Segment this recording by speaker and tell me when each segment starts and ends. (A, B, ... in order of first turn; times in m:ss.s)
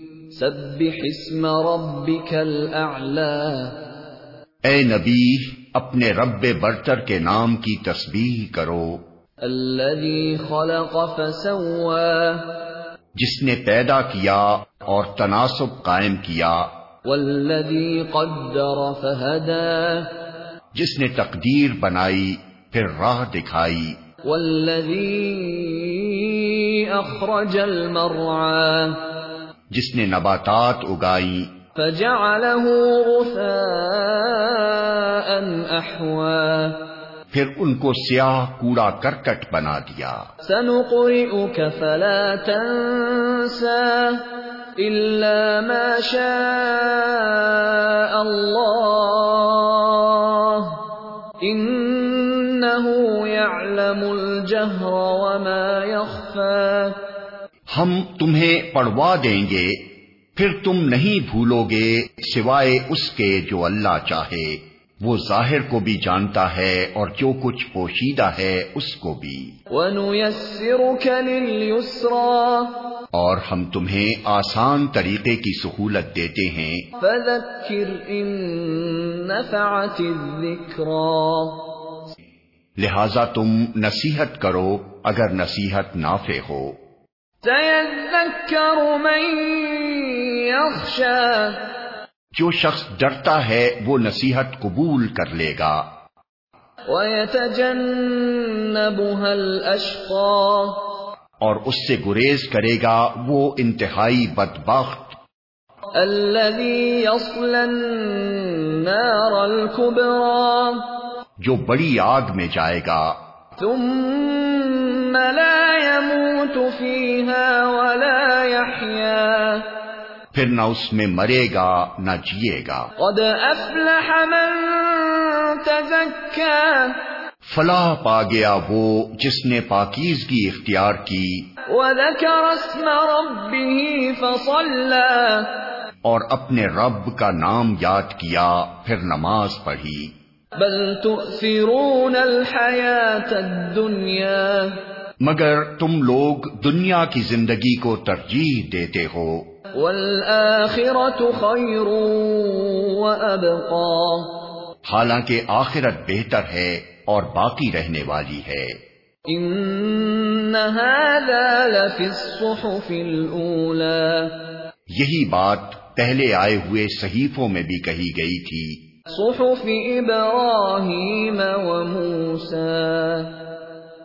0:00.3-0:03.8 A
0:04.6-0:09.0 B
0:09.4-0:12.5 A
0:13.2-0:16.7 B
0:17.0-0:20.1 A
0:20.8-0:24.0 B
0:24.2-0:29.0 A
0:29.7-0:31.5 B
0:31.8-0:36.8 A
0:37.3-0:40.2 B
0:40.4-0:44.3 A
0:44.8-0:50.8 A
0:51.4-0:57.0 A
0:57.7-0:59.8 B
1:00.4-1:09.5 B
1:09.7-1:12.7 A
1:13.1-1:16.9 B
1:17.0-1:21.7 A
1:22.8-1:26.8 B
1:27.4-1:31.6 A
1:32.4-1:35.9 B
1:36.9-1:40.8 A
1:41.4-1:45.2 B
1:46.0-1:50.9 A
1:51.4-1:53.2 B
1:53.6-1:59.7 A
2:00.3-2:02.9 B
2:03.0-2:07.0 A
2:07.5-2:11.5 B
2:11.7-2:15.5 A
2:16.0-2:20.1 B
2:20.6-2:24.8 A
2:25.2-2:29.5 B
2:29.7-2:34.4 A
2:34.9-2:38.8 B
2:39.3-2:44.4 A
2:44.9-2:48.8 B
2:49.1-2:53.4 A